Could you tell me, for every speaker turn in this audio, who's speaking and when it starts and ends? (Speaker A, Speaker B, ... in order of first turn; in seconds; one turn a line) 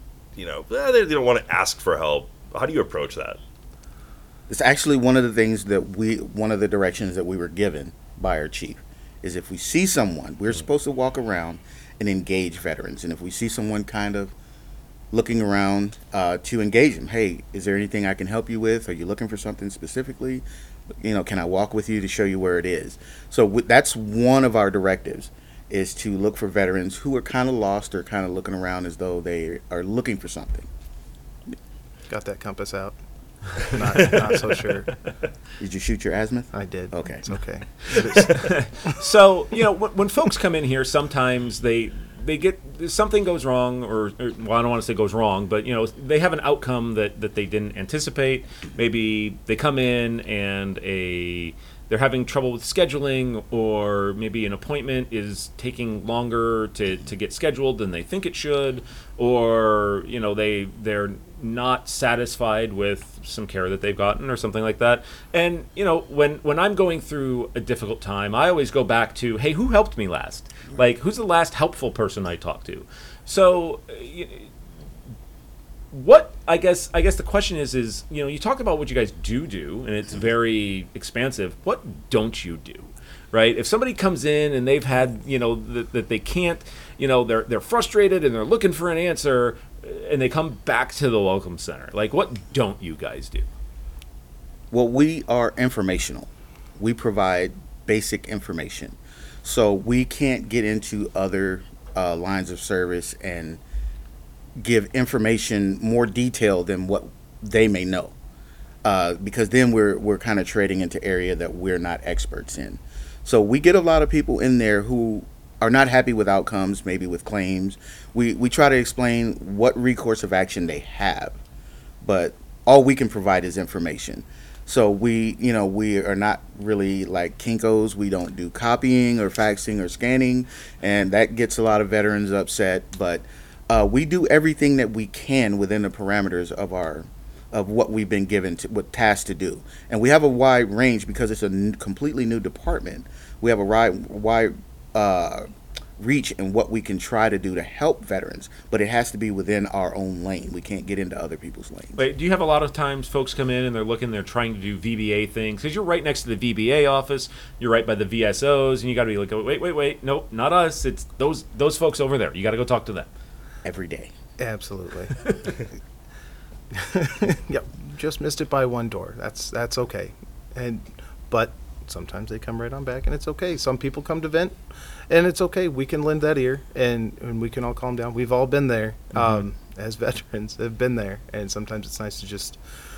Speaker A: 0.4-3.4
Speaker B: 4.5-14.3
Speaker B: 15.1-20.4
Speaker B: 21.0-30.7
Speaker C: 32.1-33.0
Speaker C: 33.5-35.0
Speaker B: 35.6-37.3
Speaker C: 36.5-38.6
Speaker D: 38.3-74.5
Speaker D: 75.9-93.5
Speaker B: 94.7-103.6
Speaker B: 104.6-108.2
Speaker B: 108.8-121.4
Speaker B: 122.0-152.0
Speaker D: 152.0-163.1
Speaker B: 163.6-164.1
Speaker C: 164.4-165.3
Speaker C: 166.7-182.6